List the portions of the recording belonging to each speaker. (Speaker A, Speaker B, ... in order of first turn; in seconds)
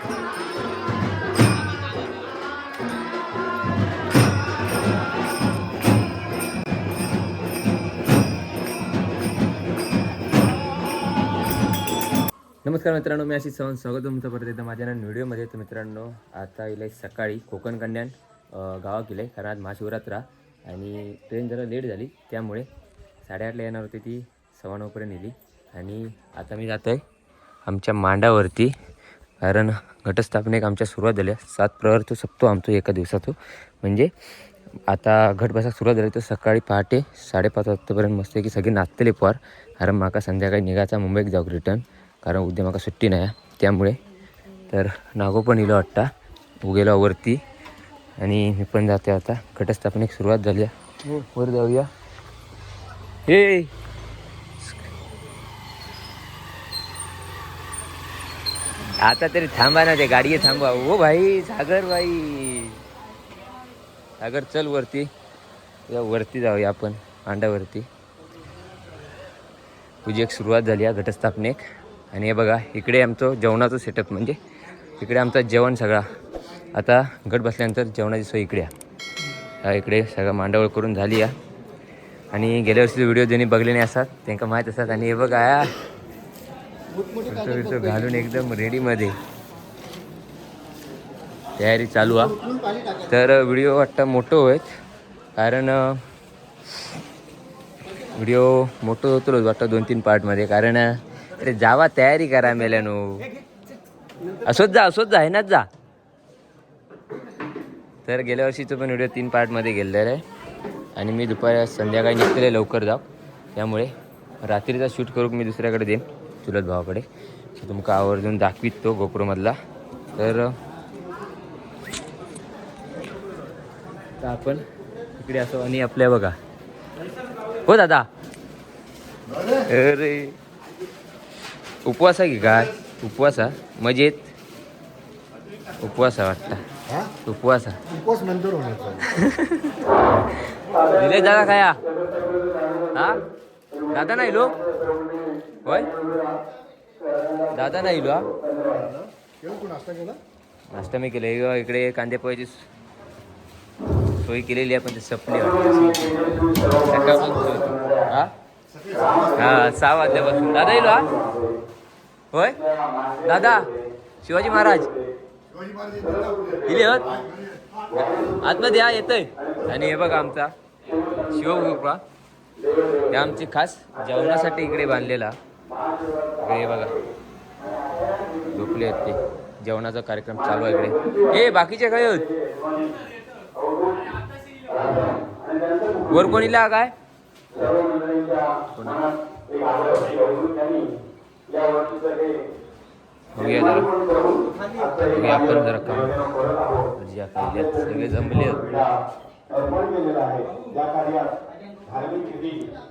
Speaker A: 12.7-22.7, 23.2-27.0, 27.7-28.7, 29.4-34.1, 34.9-44.0, 44.7-46.1, 46.6-47.4, 48.2-51.9, 53.3-53.7, 59.0-62.8, 64.2-65.1, 65.9-67.9, 70.0-74.4, 75.0-76.0, 76.7-78.7, 79.6-81.3, 82.3-85.7, 87.3-89.2, 91.6-92.4, 93.0-94.7, 95.4-96.0, 98.2-103.3, 104.4-105.7, 108.1-110.2, 111.0-119.6, 120.2-120.6, 124.2-124.6, 125.2-126.4, 127.7-128.1, 129.7-130.4, 131.8-134.3, 135.8-136.6, 137.2-137.8, 139.1-139.7, 140.9-141.8, 143.9-144.6, 147.5-148.3, 150.7-152.6, 154.2-158.3, 159.4-161.2, 162.3-162.6, 163.1-163.7, 164.2-164.9, 166.6-167.2, 168.2-170.5, 171.1-172.0, 173.1-175.4, 176.4-177.0, 178.4-182.3, 186.0-186.9, 188.7-189.1, 193.3-194.1, 194.9-196.3, 196.9-198.8
Speaker B: 87.0-87.4, 137.9-139.0, 148.6-150.2, 158.7-159.3, 165.5-166.4
Speaker C: 199.5-202.7